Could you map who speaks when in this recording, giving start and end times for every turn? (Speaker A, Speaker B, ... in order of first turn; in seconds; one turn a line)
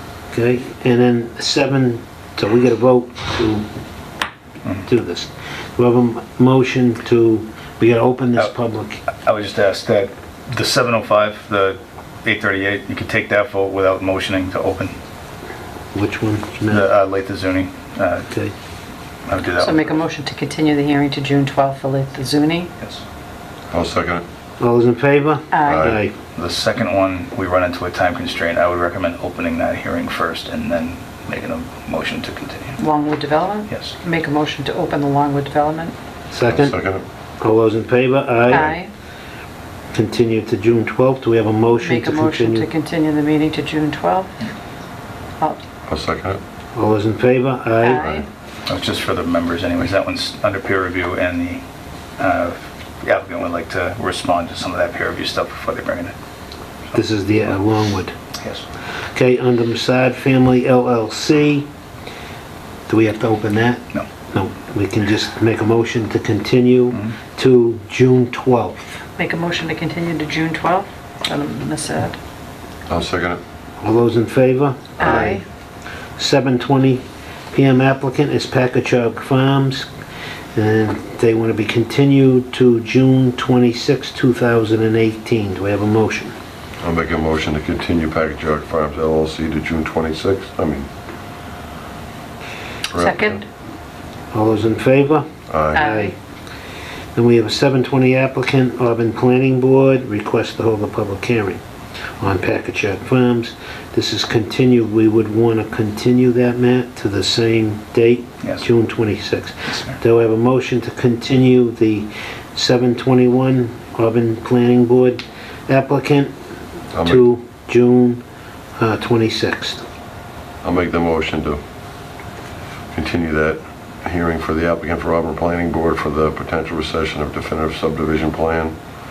Speaker A: 0.3-3.7
Speaker A: 4.8-9.0
Speaker B: 9.1-14.9
Speaker A: 15.9-16.9
Speaker B: 16.7-18.3
Speaker B: 19.3-20.0
Speaker C: 19.6-22.7
Speaker D: 23.7-24.2
Speaker A: 24.6-26.1
Speaker C: 25.5-25.9
Speaker D: 25.6-26.0
Speaker B: 26.3-32.8
Speaker C: 32.8-35.9
Speaker B: 33.7-33.9
Speaker A: 36.3-36.7
Speaker D: 36.5-37.0
Speaker A: 37.4-38.8
Speaker C: 38.5-38.9
Speaker A: 39.9-42.7
Speaker C: 41.8-44.4
Speaker D: 45.9-46.4
Speaker A: 46.7-48.2
Speaker C: 47.8-48.2
Speaker B: 48.7-51.6
Speaker B: 52.2-56.1
Speaker A: 56.9-58.1
Speaker B: 58.4-58.6
Speaker A: 59.1-61.7
Speaker A: 62.9-69.0
Speaker C: 69.2-72.2
Speaker D: 72.9-73.4
Speaker A: 73.8-75.4
Speaker C: 75.0-75.4
Speaker A: 76.2-79.9
Speaker A: 80.5-86.3
Speaker D: 86.8-90.9
Speaker D: 92.9-93.4
Speaker C: 92.9-93.5
Speaker A: 94.3-96.1
Speaker D: 95.5-95.8
Speaker C: 95.7-96.1
Speaker A: 97.1-101.6
Speaker A: 102.2-116.3
Speaker B: 109.7-110.0
Speaker D: 116.9-117.3
Speaker A: 117.0-118.2
Speaker A: 118.8-119.8
Speaker D: 120.6-121.6
Speaker D: 122.9-128.8